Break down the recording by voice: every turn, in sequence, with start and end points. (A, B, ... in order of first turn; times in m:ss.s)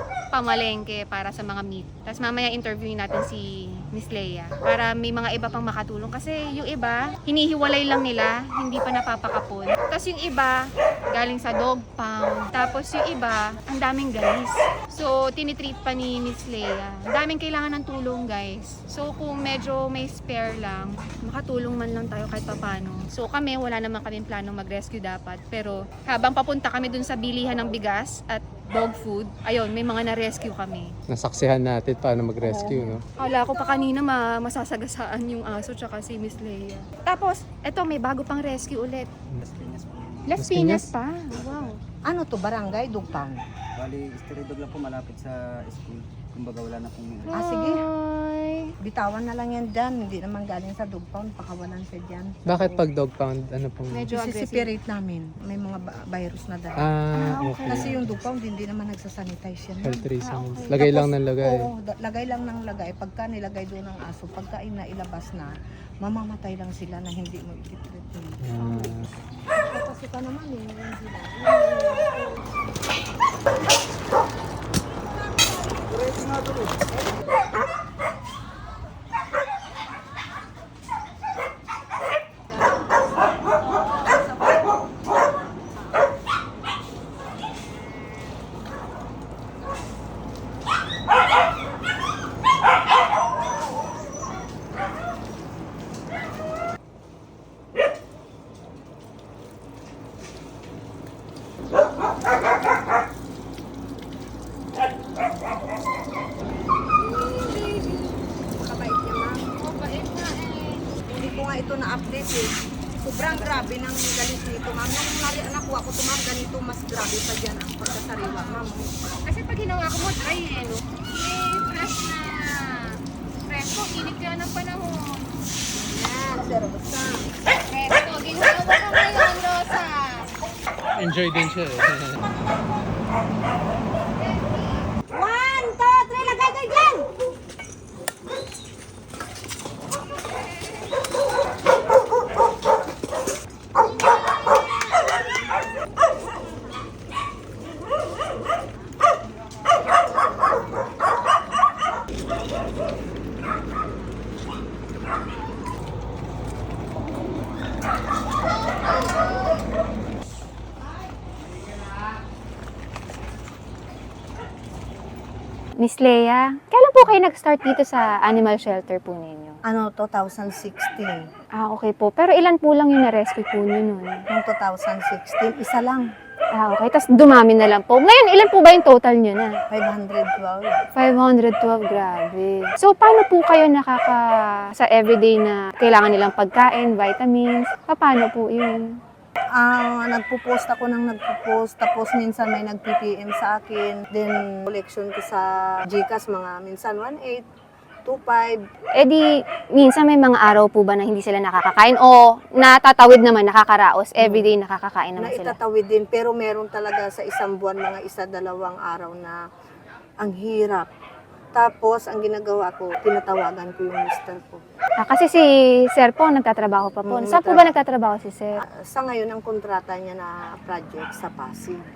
0:00.3-0:30.9 A
0:31.1-0:33.0 B
0:32.4-0:33.0 C
0:33.2-0:39.1 A
0:39.4-0:40.4 D
0:40.3-0:41.8 A
0:40.3-0:40.9 B
0:41.3-0:41.7 D
0:42.1-0:43.4 C
0:43.8-0:47.3 D
0:47.3-0:48.7 A
0:47.3-0:47.8 C
0:48.8-0:52.8 C
0:52.5-0:54.1 B
0:53.9-0:54.7 A
0:54.1-0:56.9 C
0:56.8-0:57.9 B
0:57.1-0:57.9 A
0:57.7-1:00.1 C
0:59.8-1:01.6 B
1:00.2-1:00.9 A
1:00.7-1:08.9 C
1:08.4-1:09.0 B
1:09.6-1:12.7 C
1:47.0-1:48.1 A
1:48.6-1:49.6 C
1:49.6-1:50.8 A
1:51.1-1:58.9 C
1:53.1-1:53.7 A
1:58.2-1:58.6 A
1:59.2-2:05.3 A
2:05.7-2:07.2 C
2:07.7-2:10.3 A
2:11.0-2:12.2 B
2:14.2-2:14.7 A
2:15.1-2:17.1 C
2:45.8-2:49.6 A
2:49.7-2:51.2 C
2:51.6-2:54.2 A
2:54.3-2:56.1 C
2:56.6-2:59.5 A
2:59.7-3:00.8 C
3:01.0-3:08.9 A
3:09.6-3:17.4 C
3:18.1-3:18.6 C
3:19.0-3:25.6 A
3:24.2-3:24.5 C
3:25.2-3:29.4 C
3:30.2-3:30.9 C
3:31.5-3:34.6 C
3:35.0-3:38.6 A
3:37.0-3:37.7 C
3:38.9-3:41.8 C